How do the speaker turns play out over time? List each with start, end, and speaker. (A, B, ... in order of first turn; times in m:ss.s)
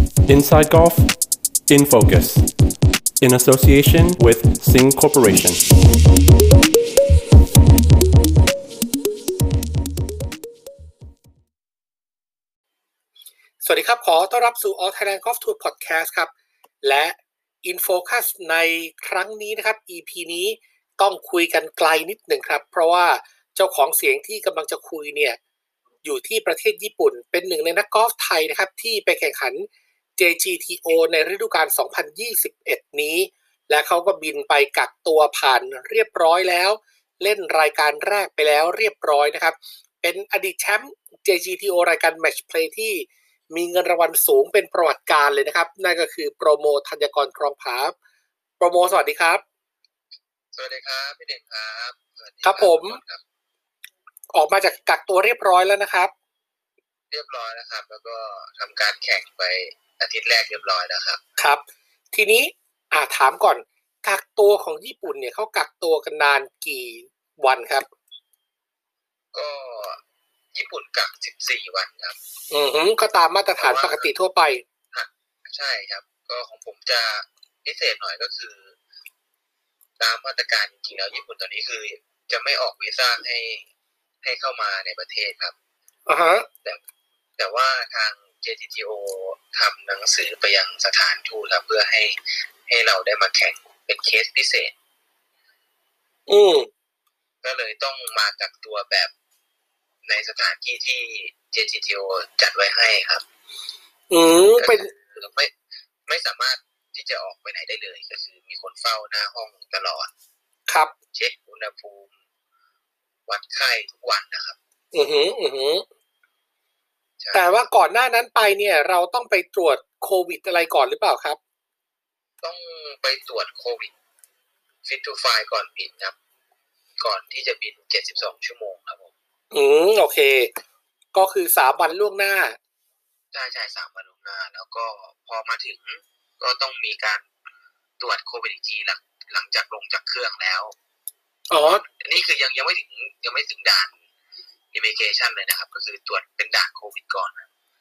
0:00.3-0:01.2 A
0:01.7-0:02.5 A
0:03.2-0:05.6 A
0:13.6-0:25.4 B
0:26.0-0:47.9 B
0:48.6-0:49.4 B
0:50.5-0:53.2 C
0:52.4-0:53.0 B
0:54.3-0:56.1 B
0:57.1-1:01.2 C
1:01.4-1:07.9 B
1:09.3-1:10.0 C
1:10.5-1:12.2 C
1:12.5-1:14.6 B
1:13.6-1:14.1 C
1:14.9-1:18.7 C
1:20.0-1:23.6 C
1:24.2-1:25.5 C
1:26.1-1:26.5 B
1:27.4-1:34.7 C
1:36.3-1:36.7 B
1:37.4-1:39.1 C
1:40.0-1:43.2 C
1:44.1-1:44.9 B
1:44.6-1:45.5 C
1:46.1-1:50.1 C
1:50.7-1:50.9 B
1:51.1-1:52.1 C
1:53.3-1:54.6 C
1:54.9-1:55.8 B
1:57.2-1:57.7 C
1:57.3-2:01.4 B
2:02.4-2:03.9 C
2:04.8-2:06.1 C
2:07.0-2:09.1 C
2:09.5-2:10.5 B
2:11.1-2:12.6 B
2:13.3-2:17.2 C
2:18.0-2:20.7 C
2:21.5-2:21.8 B
2:21.6-2:23.9 C
2:24.7-2:27.4 C